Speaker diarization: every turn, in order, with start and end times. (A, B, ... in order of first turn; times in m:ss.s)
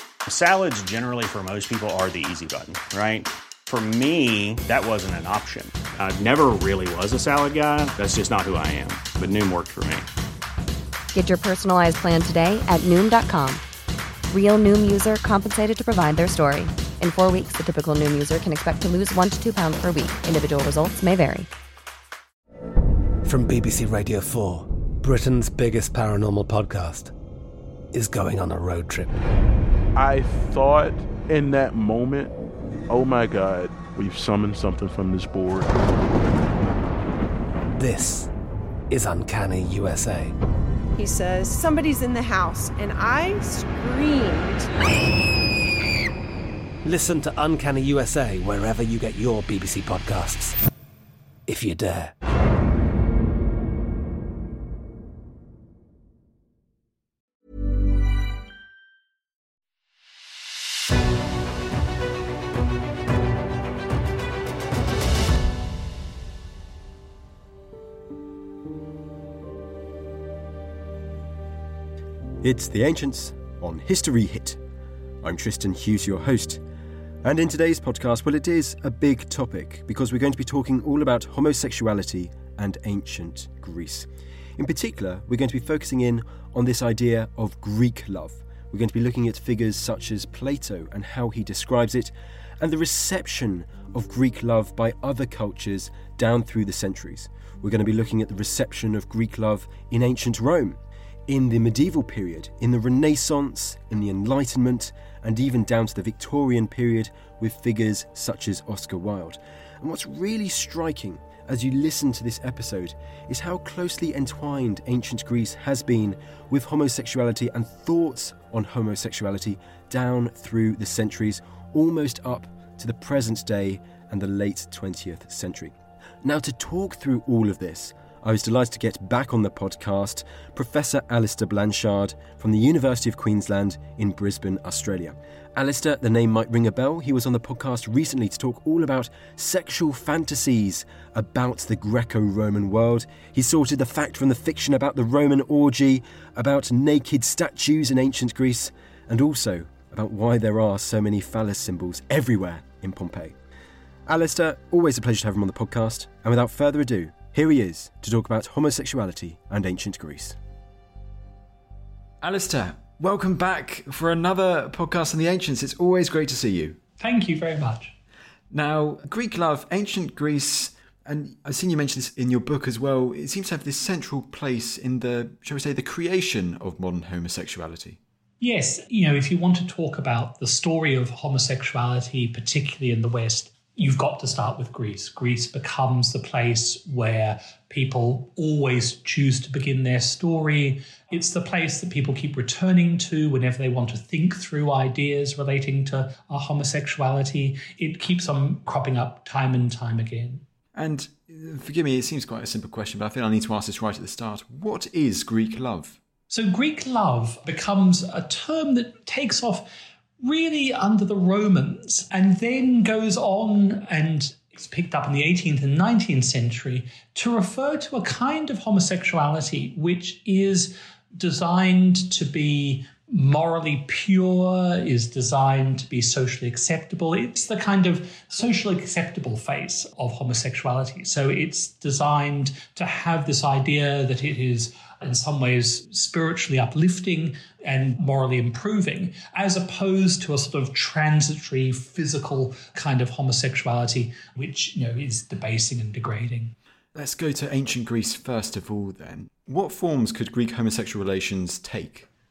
0:00.2-0:10.1 A
0:11.1-0:13.6 B
0:14.3-0:21.5 B
0:23.2-0:27.1 C
0:27.9-0:29.2 C
0:29.9-0:32.3 D
0:32.9-0:35.7 D
0:37.8-0:38.3 C
0:38.9-0:40.3 C
0:41.0-0:44.7 E
0:46.8-0:50.6 C
0:51.5-0:52.1 C
1:12.4-1:14.6 F
1:15.2-1:16.6 F
1:17.2-2:33.3 F
2:34.0-2:40.4 F
2:42.2-2:46.8 G
2:47.0-2:47.9 H
2:48.5-2:58.0 G
2:58.4-3:20.4 H
3:20.7-3:26.0 G
3:26.3-3:29.7 H
3:30.2-4:06.5 H
4:06.9-4:12.1 G